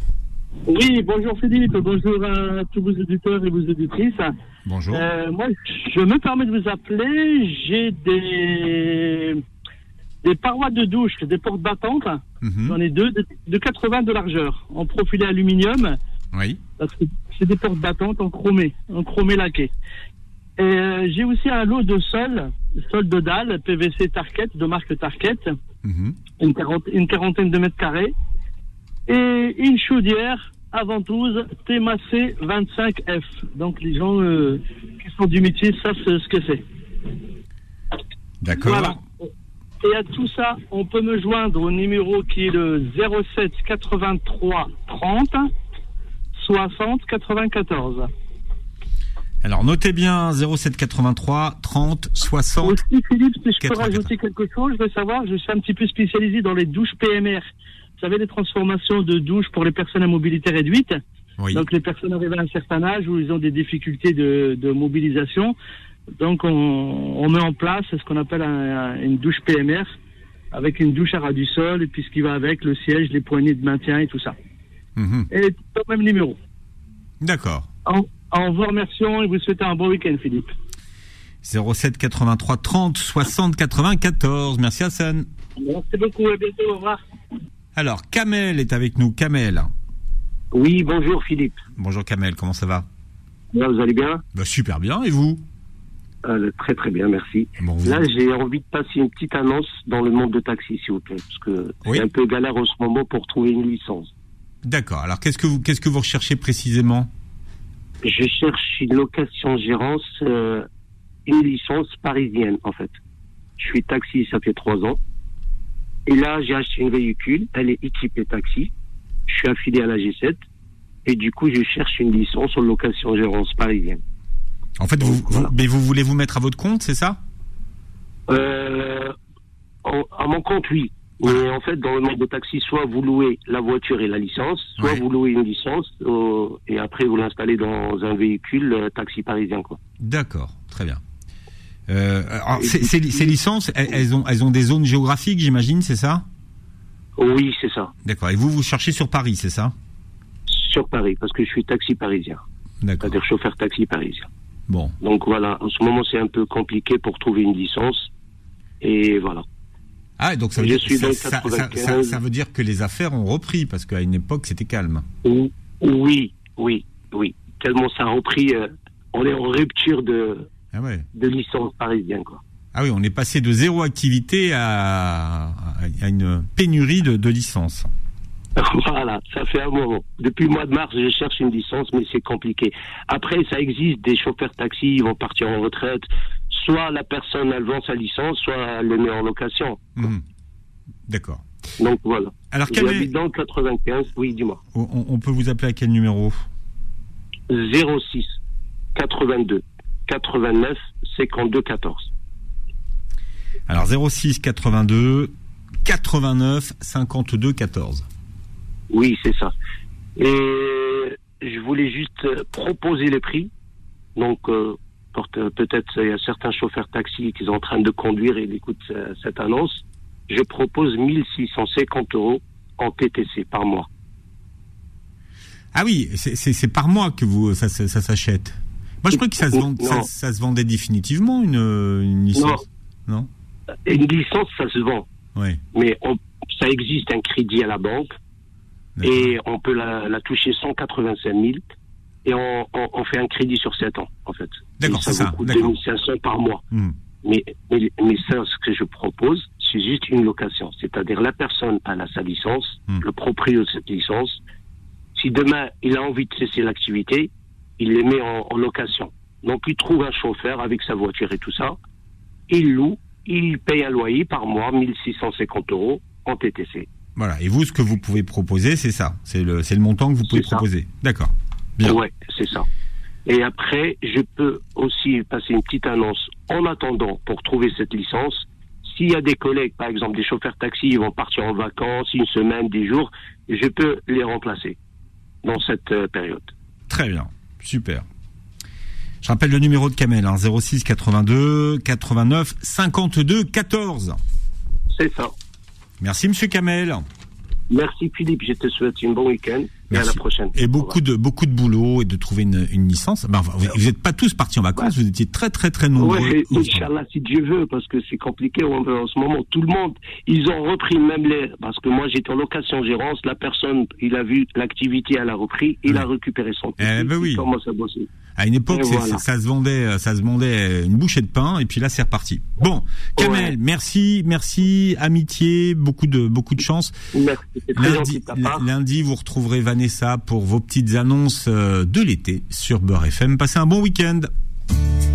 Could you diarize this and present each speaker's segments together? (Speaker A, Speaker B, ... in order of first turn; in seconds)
Speaker A: 0.7-4.3, 4.9-9.4, 10.2-16.0, 16.8-19.7, 20.6-25.5, 26.4-28.1, 29.1-36.6, 38.6-39.0, 39.8-45.5, 46.3-48.1, 52.6-57.5, 58.0-61.0, 61.5-65.5, 66.2-69.9, 70.5-74.3, 75.3-76.4, 77.8-80.5, 85.6-87.0
Speaker B: 4.6-5.0, 12.4-12.8, 16.3-16.6, 25.8-26.2, 38.4-39.0, 49.4-52.8, 53.6-54.1, 61.4-61.6, 75.0-75.3, 77.2-77.7, 81.4-85.3, 87.8-89.7, 91.8-92.8, 94.3-95.4, 97.6-98.1, 104.6-107.1, 124.8-127.2, 134.8-135.0, 140.0-141.0, 141.9-146.2, 148.0-149.7, 152.8-153.2, 154.7-154.9, 160.2-165.0, 170.7-171.1, 172.7-177.9, 190.0-190.2, 191.1-191.4, 192.5-193.1, 194.7-196.4, 203.7-205.3, 205.8-208.1, 225.7-233.3, 235.3-235.6, 239.0-239.3, 244.8-245.8, 267.1-272.0, 286.9-288.0, 289.2-294.2, 296.0-297.0, 299.9-306.9, 316.8-317.4, 318.4-326.9, 327.7-334.3
Speaker C: 90.5-91.6, 93.5-94.2, 96.2-104.1, 108.0-110.7, 111.3-113.0, 113.6-115.0, 116.0-118.7, 119.3-120.4, 121.0-124.0, 125.0-125.5, 128.3-129.1, 129.8-139.8, 142.6-143.3, 147.2-147.9, 150.5-152.4, 153.0-154.3, 155.0-158.1, 158.8-159.4, 160.6-162.2, 165.2-170.5, 171.1-172.4, 178.6-189.9, 191.8-194.6, 197.5-198.3, 198.9-202.1, 208.9-209.5, 210.2-213.5, 214.2-223.9, 229.1-230.1, 232.3-232.6, 233.8-235.1, 235.7-238.2, 239.0-241.6, 242.2-246.6, 247.2-254.4, 255.2-261.8, 262.5-266.9, 270.2-270.6, 271.8-272.6, 273.2-284.8, 285.4-286.5, 294.9-295.3, 297.7-300.9, 306.0-318.1, 318.7-319.2, 323.2-323.5, 327.1-328.6